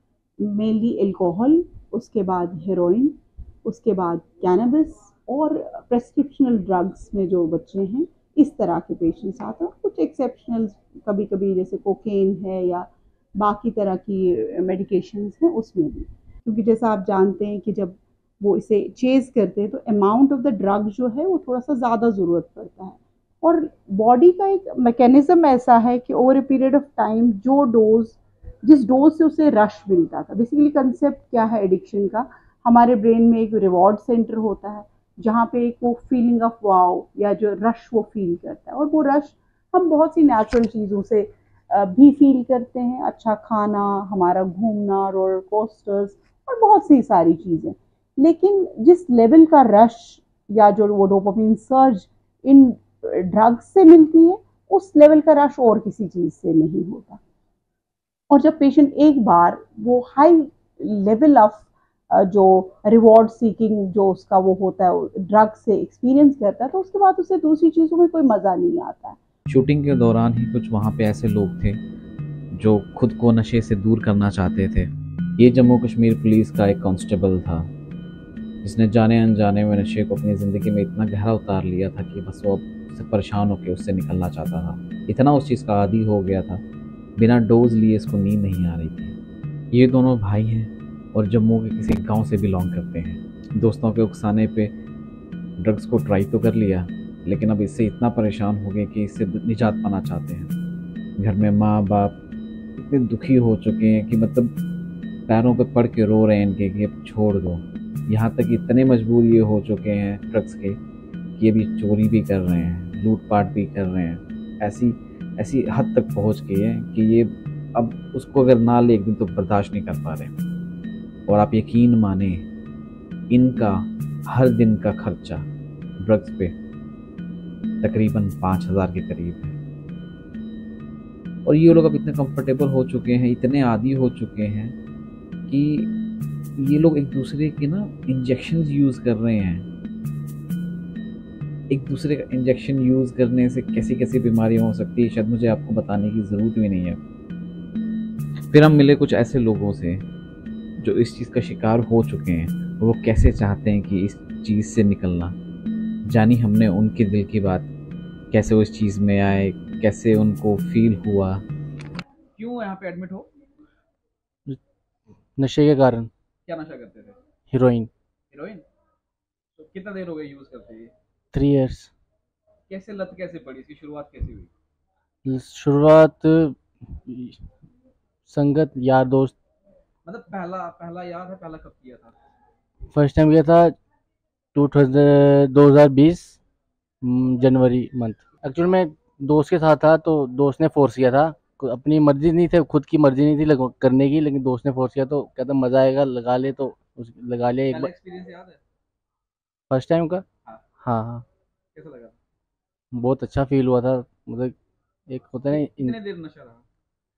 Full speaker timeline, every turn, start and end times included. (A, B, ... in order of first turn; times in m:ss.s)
0:00.4-0:57.2 A
0:58.3-1:09.2 A
1:09.5-1:11.8 B
1:12.5-1:17.7 B
1:18.6-1:26.6 B
1:27.2-1:29.2 B
1:29.7-1:34.7 B
1:35.6-1:40.5 B
1:41.2-1:42.2 B
1:42.8-1:44.5 B
1:45.3-1:50.8 B
1:51.4-2:00.3 B
2:01.3-2:02.4 B
2:03.3-2:05.5 B
2:06.0-2:06.5 B
2:07.8-2:09.6 B
2:11.5-2:14.8 B
2:15.5-2:15.9 B
2:16.6-2:19.7 B
2:21.7-2:27.0 B
2:28.5-2:30.0 B
2:30.8-2:35.4 B
2:36.1-2:37.7 B
2:38.3-2:41.4 B
2:42.4-2:43.3 C
2:45.4-2:46.1 D
2:46.5-2:47.2 C
2:47.5-2:47.9 D
2:48.3-2:48.6 C
2:49.6-2:50.9 C
2:51.3-2:51.9 D
2:52.7-2:54.5 C
2:55.2-2:57.4 D
2:58.3-2:59.3 D
3:00.0-3:02.1 C
3:02.9-3:03.7 D
3:04.5-3:06.4 D
3:07.0-3:17.9 D
3:17.7-3:18.6 C
3:19.7-3:20.2 D
3:20.8-3:21.2 D
3:21.8-3:22.2 C
3:22.9-3:24.5 D
3:25.1-3:26.0 D
3:25.6-3:26.6 C